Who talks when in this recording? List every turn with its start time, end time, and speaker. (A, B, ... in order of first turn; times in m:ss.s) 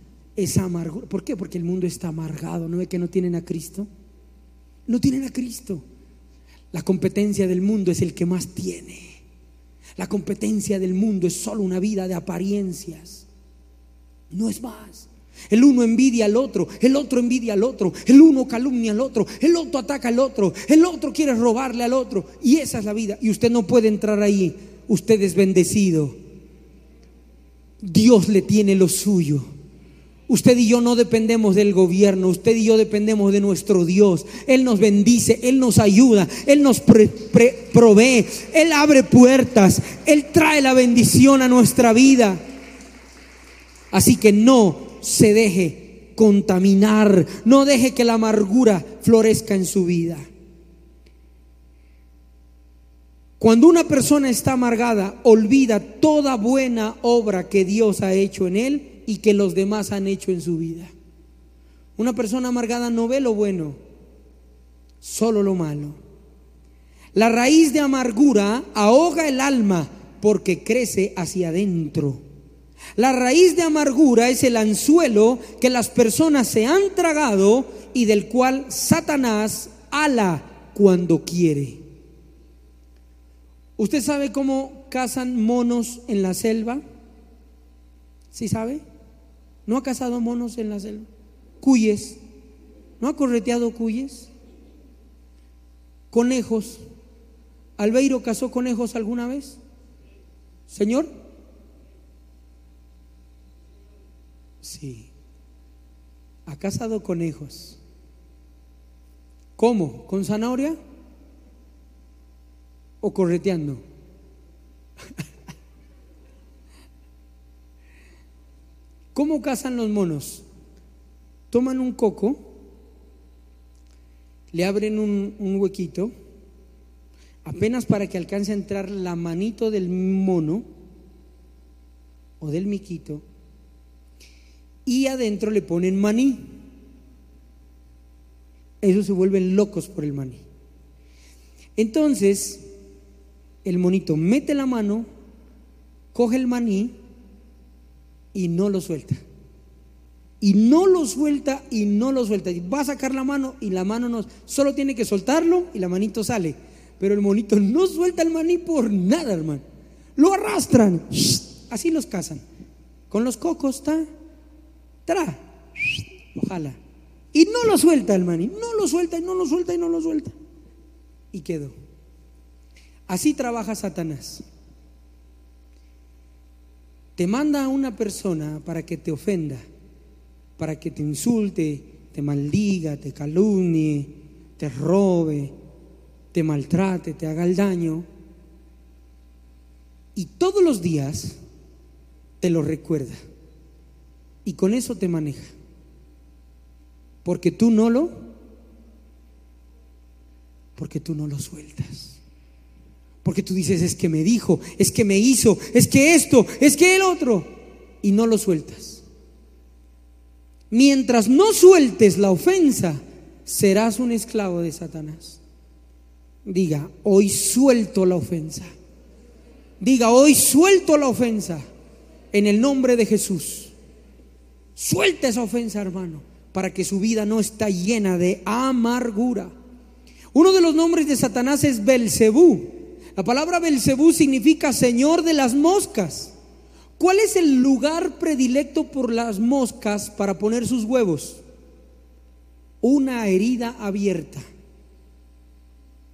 0:00.4-0:03.9 A
0:04.9-0:05.8 A
0:06.7-0:09.2 A
0:10.0-0:13.2 A
0:14.3-0:26.2 A
0:27.8-0:29.5 A
0:30.3-0:42.4 A
0:43.9-0:50.3 A
0:53.4-1:00.9 A
1:02.0-1:03.8 A
1:05.0-1:06.0 A
1:07.1-1:12.2 A
1:13.0-1:21.8 A
1:23.8-1:26.8 A
1:28.3-1:28.8 A
1:29.6-1:31.1 A
1:31.6-1:32.2 A
1:33.0-1:34.3 A
1:36.1-1:36.8 A
1:37.8-1:39.6 A
1:40.7-1:41.1 A
1:44.6-1:45.1 A
1:46.4-1:47.8 A
1:49.6-1:50.8 A
1:53.0-1:53.8 A
1:59.1-2:00.4 A
2:01.5-2:02.5 A
2:04.5-2:06.1 A
2:07.4-2:10.6 A
2:12.4-2:13.2 A
2:14.8-2:16.4 A
2:18.8-2:20.4 A
2:21.8-2:22.6 A
2:23.6-2:25.1 A
2:26.1-2:26.9 A
2:28.3-2:29.2 A
2:30.4-2:39.6 A
2:40.2-2:42.4 A
2:43.1-2:44.1 A
2:45.0-2:46.8 A
2:47.3-2:50.3 A
2:51.3-2:51.8 A
2:53.1-2:54.4 A
2:57.2-2:59.6 A
3:00.6-3:05.5 A
3:06.3-3:08.1 A
3:10.2-3:11.4 A
3:12.4-3:13.2 A
3:14.4-3:15.5 A
3:17.2-3:18.1 A
3:20.8-3:22.2 A
3:23.2-3:27.5 A
3:28.0-3:29.0 A
3:30.7-3:35.4 A
3:36.4-3:38.7 A
3:39.8-3:41.6 A
3:42.3-3:43.7 A
3:44.8-3:49.5 A
3:50.3-3:56.3 A
3:57.0-4:01.4 A
4:02.8-4:04.4 A